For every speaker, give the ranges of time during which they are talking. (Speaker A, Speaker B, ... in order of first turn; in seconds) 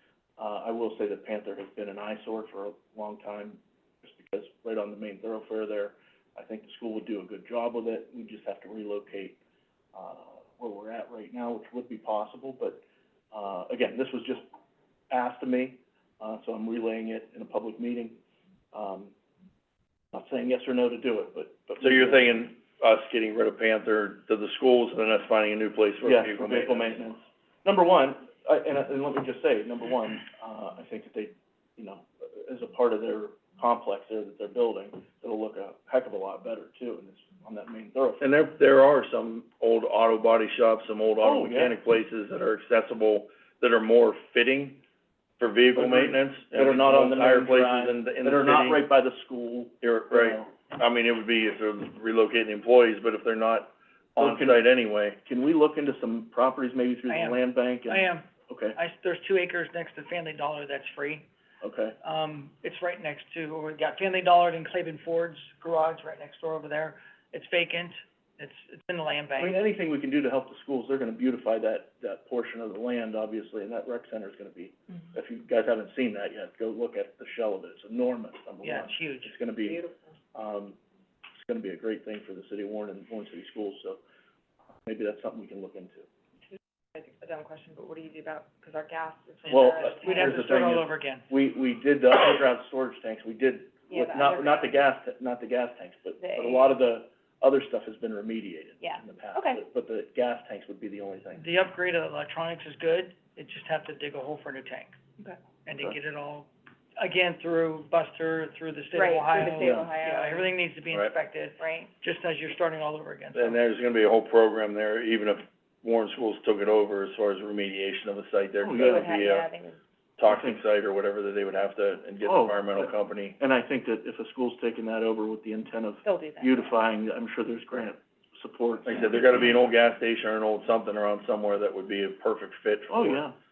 Speaker A: 0.4-9.4, 9.9-12.8, 13.3-14.4, 15.1-18.2, 18.7-19.1, 20.1-22.3, 26.0-38.2, 41.2-41.8, 45.7-50.5, 54.2-58.8, 61.6-62.0, 69.4-80.8, 81.4-84.0, 84.8-86.0, 89.5-101.5, 109.6-109.9, 118.6-119.0, 120.2-120.6, 122.2-129.4, 132.9-133.3
Speaker B: 21.8-27.0, 38.2-44.8, 45.4-48.9, 49.8-55.2, 113.3-119.5, 120.2-123.4, 128.8-133.3
Speaker C: 57.1-61.2, 62.0-69.6, 78.6-79.3, 89.8-91.3, 101.3-104.9, 105.7-113.6
Speaker D: 79.6-80.1, 86.9-90.5, 93.9-94.8, 96.2-96.8, 98.8-99.6, 108.9-110.5, 111.6-111.9, 118.8-119.8, 126.0-126.7